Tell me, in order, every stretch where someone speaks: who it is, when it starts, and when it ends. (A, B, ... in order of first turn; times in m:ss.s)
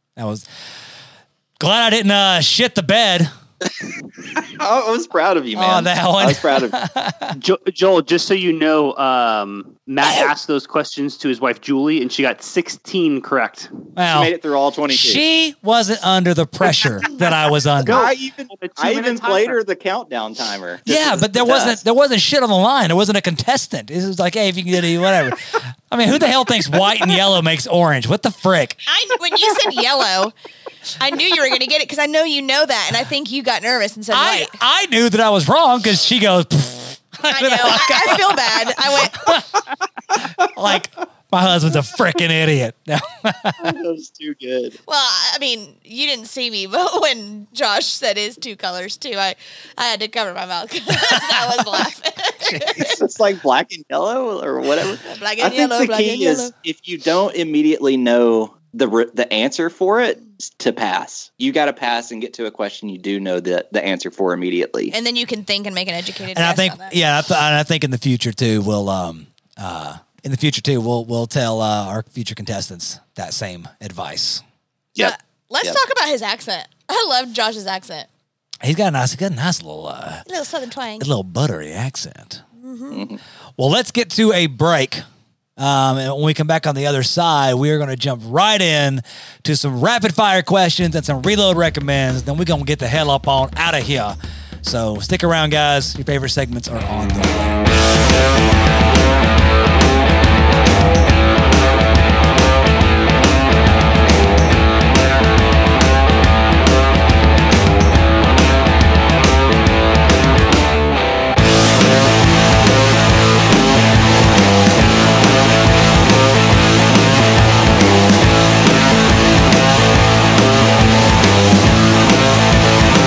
0:00.2-0:00.4 A
0:01.6-0:03.3 A
0:04.4-0:06.8 B
0:05.6-0:07.4 A
0:07.4-0:13.7 C
0:10.0-0:10.3 A
0:14.0-0:14.3 A
0:14.1-0:15.2 B
0:14.9-0:18.0 A
0:17.8-0:19.6 C
0:17.8-0:21.8 B
0:20.9-0:28.8 A
0:28.9-0:30.3 D
0:31.0-0:34.5 D
0:34.1-0:39.4 A
0:37.3-0:39.4 D
0:40.4-0:43.7 A
0:43.6-0:44.8 B
0:44.9-0:53.0 D
0:51.0-0:51.8 A
0:52.4-0:52.8 A
0:52.8-1:05.0 B
0:55.0-0:56.5 D
1:04.9-1:07.0 D
1:06.3-1:14.4 A
1:15.0-1:18.1 D
1:18.6-1:20.2 A
1:20.3-1:21.1 D
1:21.0-1:22.4 A
1:22.6-1:23.0 D
1:22.9-1:23.2 B
1:23.6-1:25.0 A
1:25.6-1:37.6 A